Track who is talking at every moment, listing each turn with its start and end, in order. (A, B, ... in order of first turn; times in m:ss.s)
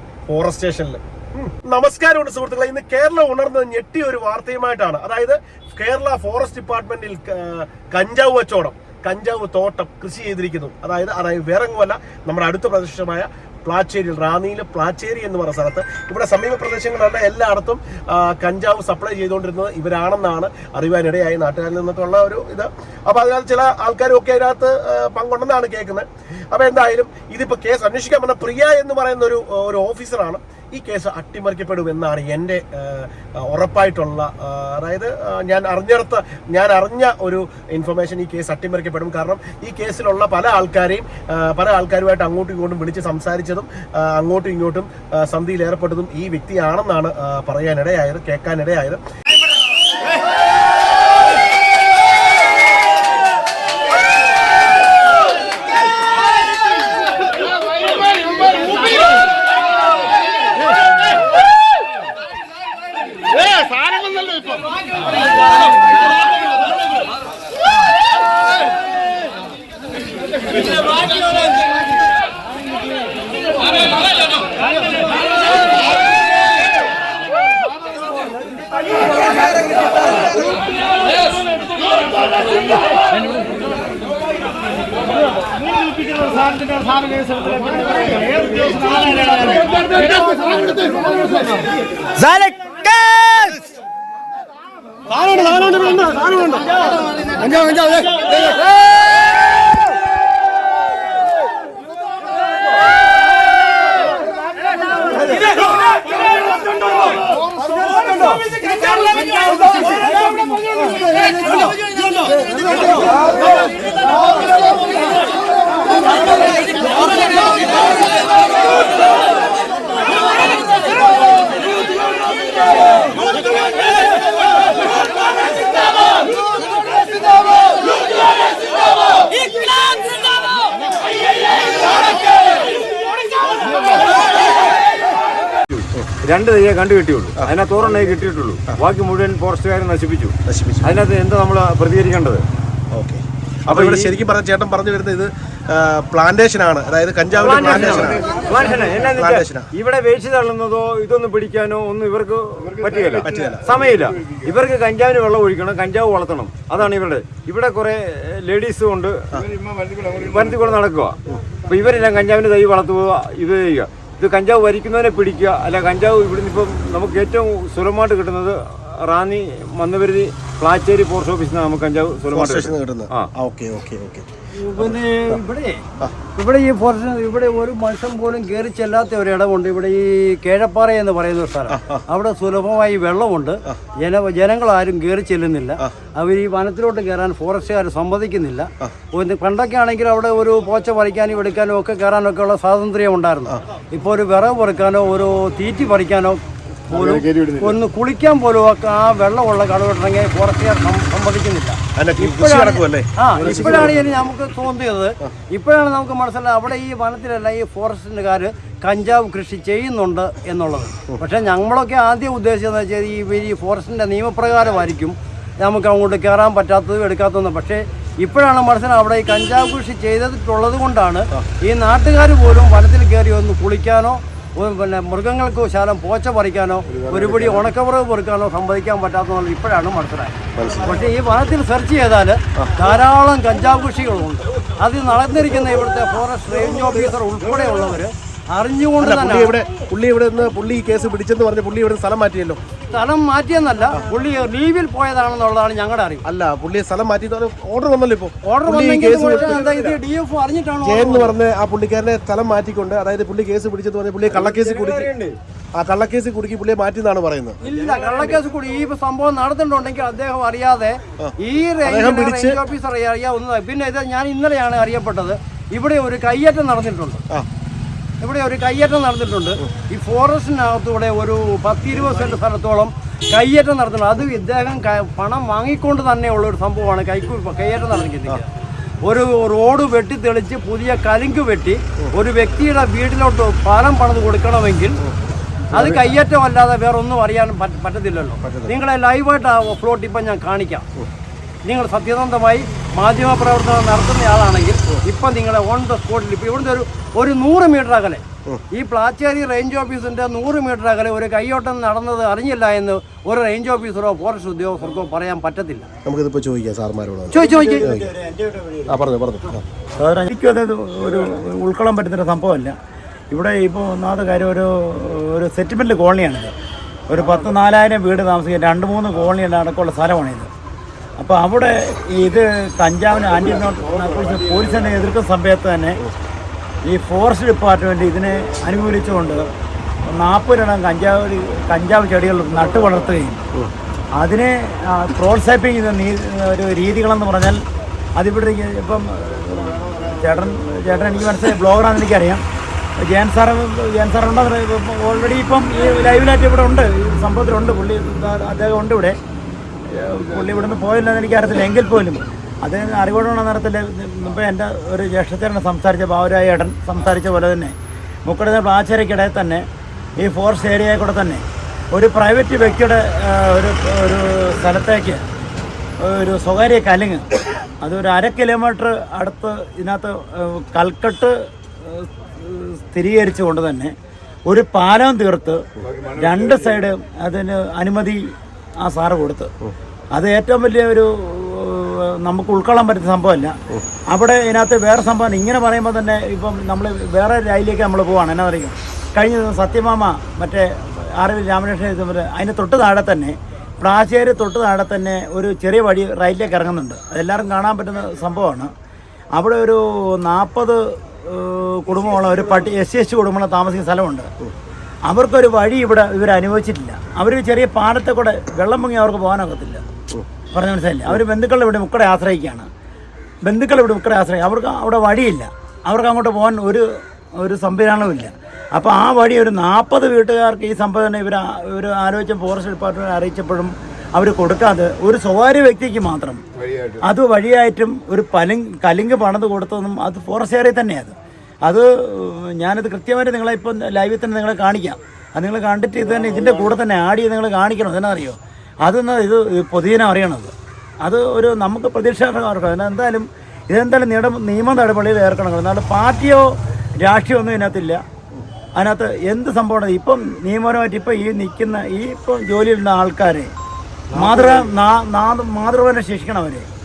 0:00.3-0:49.0 A
1:27.9-1:28.5 B
1:35.1-1:36.8 A
1:44.8-1:45.7 C
1:47.6-1:54.8 C
2:15.8-2:22.4 B
2:17.4-2:17.6 A
2:20.5-2:21.1 A
2:22.9-2:29.7 A
2:23.7-2:24.2 B
2:27.3-2:39.4 B
2:33.1-2:33.8 A
2:40.0-2:53.3 B
2:52.3-2:54.2 A
2:54.6-2:55.8 C
2:54.8-2:55.4 A
2:56.3-3:59.5 C
3:01.7-3:02.0 A
3:22.0-3:24.0 A
3:50.6-3:51.0 A
3:59.0-4:02.6 A
4:02.9-4:06.2 C
4:06.2-4:09.8 A
4:08.4-4:11.4 C
4:10.8-4:15.1 A
4:14.3-4:15.4 B
4:15.8-4:17.6 A
4:17.6-4:27.2 C
4:21.8-4:22.6 A
4:28.2-4:38.4 C
4:39.0-4:45.0 C
4:45.7-4:50.8 C
4:45.7-4:46.0 A
4:48.4-4:48.7 A
4:51.6-5:05.9 C
5:06.0-5:08.1 A
5:07.3-5:07.9 C
5:07.3-5:09.0 D
5:08.9-5:09.6 A
5:10.0-5:12.7 D
5:13.3-5:16.5 D
5:17.1-5:20.5 D
5:21.2-5:26.0 D
5:26.8-5:29.4 D
5:30.1-5:33.4 D
5:34.2-5:37.6 D
5:38.2-5:42.4 D
5:43.0-5:49.2 D
5:49.9-5:57.7 D
5:58.3-5:59.6 D
6:00.2-6:05.2 D
6:06.0-6:07.2 D
6:07.8-6:13.9 D
6:14.5-6:19.5 D
6:20.1-6:23.6 D
6:24.1-6:38.7 D
6:39.4-6:44.3 D
6:45.1-6:49.8 D
6:50.5-6:52.7 D
6:53.4-7:06.4 D
7:07.0-7:11.1 D
7:11.7-7:20.5 D
7:21.0-7:28.0 D
7:28.8-7:33.5 D
7:34.1-7:34.7 B
7:34.1-7:36.7 D